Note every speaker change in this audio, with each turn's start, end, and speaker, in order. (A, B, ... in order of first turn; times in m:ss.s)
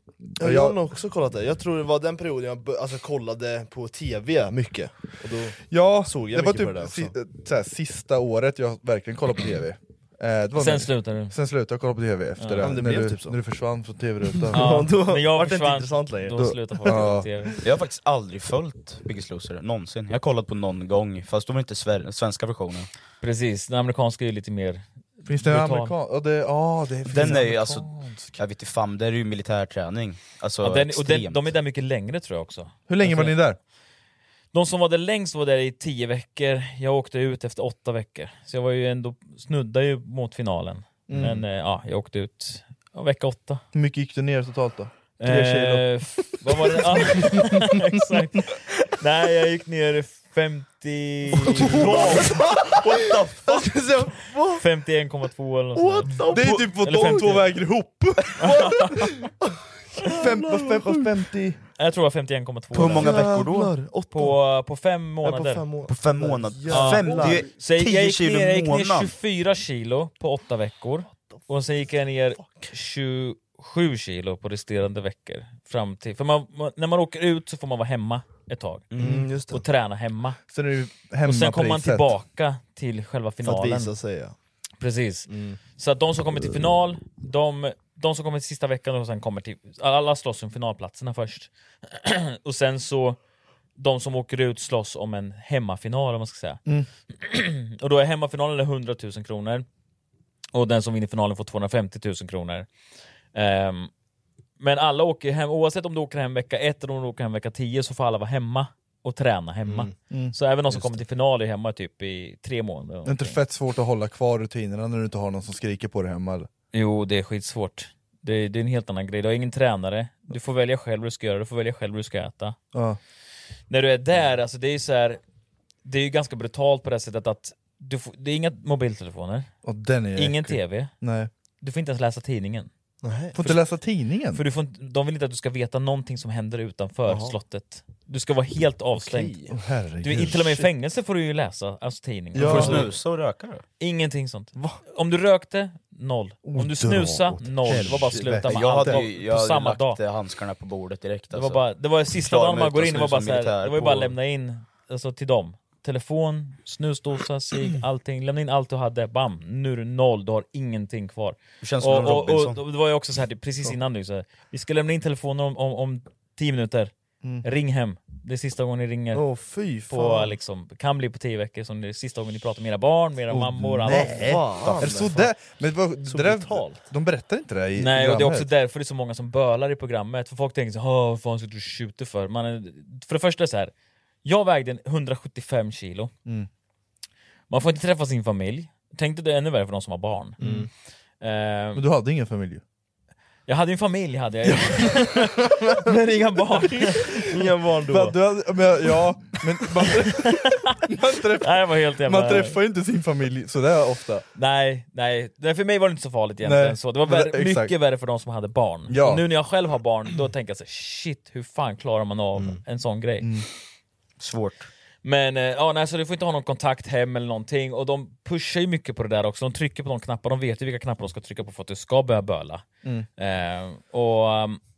0:00.4-0:00.8 A
0:00.4-0:07.1 B
0:05.7-0:14.8 A
0:10.6-0:11.3 C
0:12.4-0:12.7 C
0:12.6-0:13.4 B
0:14.3-0:17.1 B
0:14.5-0:17.6 C
0:16.3-0:17.3 A
0:17.6-0:22.9 D
0:23.2-0:25.9 C
0:25.2-0:28.4 A
0:27.1-0:31.5 D
0:30.6-0:33.4 C
0:32.9-0:33.6 A
0:34.5-0:43.6 C
0:41.1-0:41.4 A
0:43.7-0:45.7 A
0:45.2-0:52.3 C
0:45.4-0:45.8 B
0:51.3-0:54.6 B
0:52.7-0:53.8 D
0:54.5-0:57.5 C
0:55.7-0:56.6 B
0:56.3-0:58.6 A
0:58.4-0:59.1 C
0:59.2-1:01.2 B
1:00.0-1:01.6 A
1:01.8-1:03.2 C
1:02.7-1:03.8 D
1:03.0-1:04.4 B
1:04.1-1:05.6 C
1:05.2-1:07.5 B
1:05.9-1:09.1 D
1:06.7-1:20.4 C
1:12.4-1:12.7 B
1:18.9-1:19.6 B
1:19.0-1:19.2 A
1:20.5-1:22.1 A
1:21.2-1:23.9 C
1:23.4-1:24.3 B
1:24.8-1:33.2 C
1:25.3-1:25.6 B
1:33.8-1:39.6 C
1:40.5-1:42.7 C
1:43.3-1:43.9 C
1:44.6-1:53.4 C
1:49.6-1:50.0 B
1:50.1-1:50.3 A
1:53.0-1:56.5 A
1:56.7-2:02.6 C
2:02.7-2:03.0 A
2:03.7-2:05.2 C
2:05.8-2:09.5 C
2:09.6-2:11.3 A
2:10.1-2:10.9 C
2:11.6-2:12.7 C
2:13.0-2:13.4 B
2:13.3-2:14.4 A
2:14.3-2:19.4 C
2:17.1-2:17.4 B
2:18.9-2:19.6 B
2:19.5-2:20.6 A
2:20.0-2:22.9 C
2:22.4-2:22.9 B
2:22.4-2:23.6 D
2:22.4-2:22.8 A
2:23.8-2:30.0 C
2:26.4-2:29.0 A
2:28.3-2:34.2 D
2:31.3-2:49.2 C
2:41.6-2:42.6 D
2:49.1-2:50.3 B
2:49.9-2:54.3 C
2:53.3-2:58.5 A
2:53.9-2:55.3 B
2:54.6-2:54.9 D
2:56.0-2:56.8 B
2:57.8-3:03.7 C
3:04.2-3:06.1 C
3:07.5-3:10.5 C
3:10.4-3:10.7 B
3:10.4-3:10.7 A
3:11.2-3:11.8 C
3:11.7-3:12.6 A
3:13.5-3:17.3 C
3:17.1-3:18.2 B
3:17.9-3:24.2 A
3:20.1-3:20.8 C
3:21.4-3:22.6 C
3:24.3-3:33.3 C
3:26.4-3:27.7 A
3:28.9-3:29.2 A
3:33.2-3:33.4 A
3:34.2-3:34.7 D
3:35.0-3:42.6 C
3:43.2-3:44.6 C